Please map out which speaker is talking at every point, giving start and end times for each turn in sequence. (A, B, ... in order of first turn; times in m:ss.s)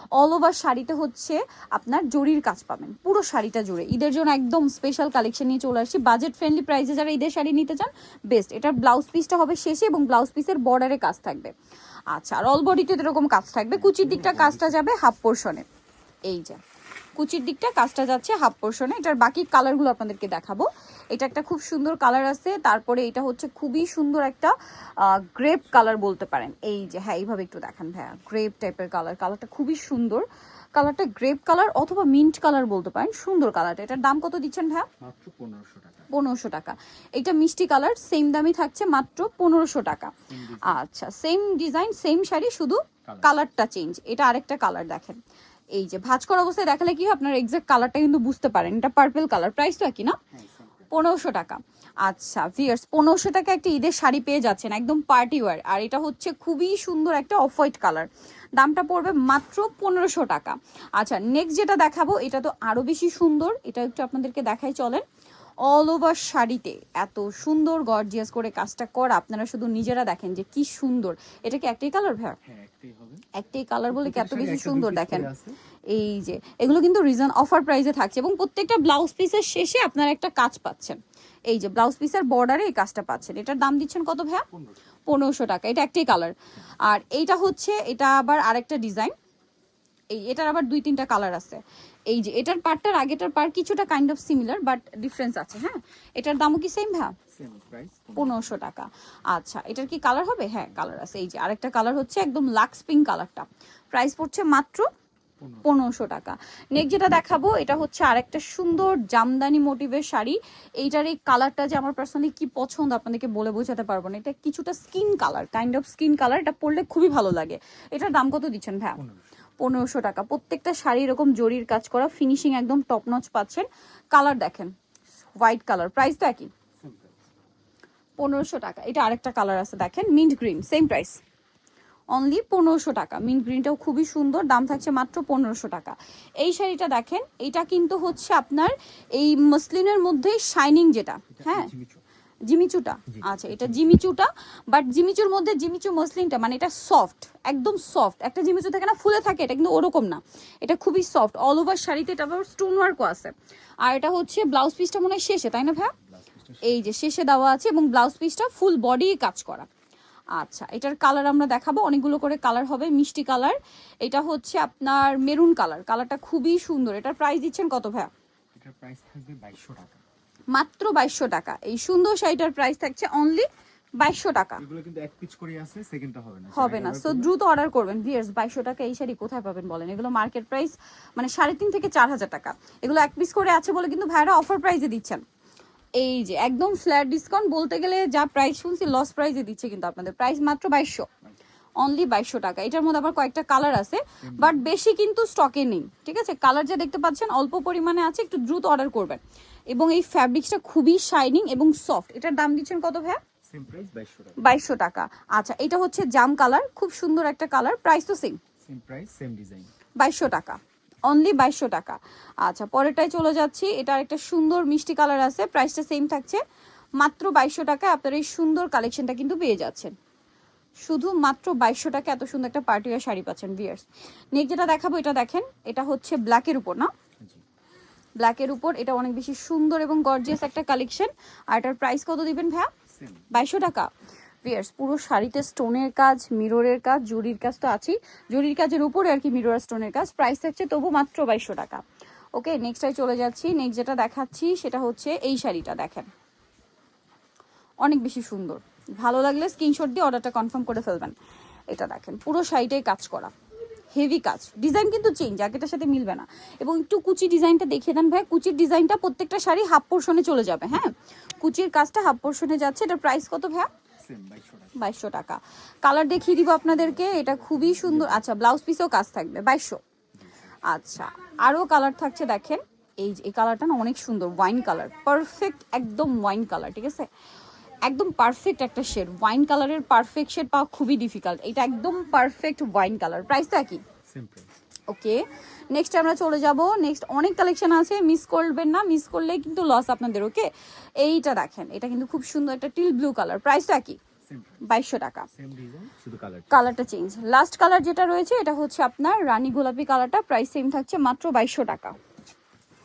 0:00.2-0:11.5 A
0:12.1-0:15.6 A
0:13.7-0:14.8 B
0:16.3-0:16.6 A
0:17.2-0:34.9 A
0:35.0-0:36.1 B
0:36.1-0:45.2 A
0:40.3-0:40.8 B
0:43.0-0:43.3 B
0:45.7-0:50.2 A
0:50.3-0:50.9 B
0:50.9-1:05.0 A
1:05.6-1:12.4 A
1:12.4-1:13.2 B
1:13.3-1:15.3 A
1:13.9-1:15.6 B
1:15.9-1:24.4 A
1:24.5-1:24.8 B
1:25.1-1:29.1 A
1:30.1-1:37.1 A
1:37.3-1:38.4 B
1:38.2-1:44.9 A
1:45.4-1:45.7 B
1:45.6-1:59.0 A
1:59.0-1:59.3 B
1:59.6-2:04.7 A
2:05.4-2:06.5 A
2:06.8-2:07.3 B
2:08.2-2:11.2 A
2:12.1-2:21.7 A
2:21.3-2:22.0 B
2:22.5-2:35.9 A
2:23.1-2:23.8 B
2:36.0-2:36.9 B
2:36.6-2:39.7 A
2:40.4-2:48.1 A
2:48.5-2:50.0 B
2:50.5-2:53.5 A
2:54.0-2:54.6 A
2:54.6-2:57.3 B
2:56.5-3:05.2 A
3:06.0-3:11.1 A
3:11.8-3:23.2 A
3:14.2-3:14.6 B
3:23.5-3:24.5 B
3:24.4-3:28.4 A
3:28.6-3:29.7 B
3:30.0-3:36.4 A
3:37.0-3:39.9 A
3:40.8-3:46.9 A
3:48.2-3:52.7 A
3:52.9-3:53.3 B
3:53.3-3:53.9 A
3:54.4-4:01.8 A
4:02.3-4:06.1 A
4:07.8-4:11.1 A
4:11.7-4:13.3 A
4:13.9-4:23.7 A
4:24.0-4:24.8 B
4:24.8-4:29.8 A
4:26.9-4:28.2 B
4:30.2-4:30.6 B
4:30.6-4:37.1 A
4:37.8-4:43.8 A
4:44.1-4:44.5 B
4:44.9-4:50.5 A
4:51.0-4:54.0 A
4:54.2-4:54.7 B
4:54.6-4:55.3 A
4:55.3-4:56.5 B
4:56.5-5:02.0 A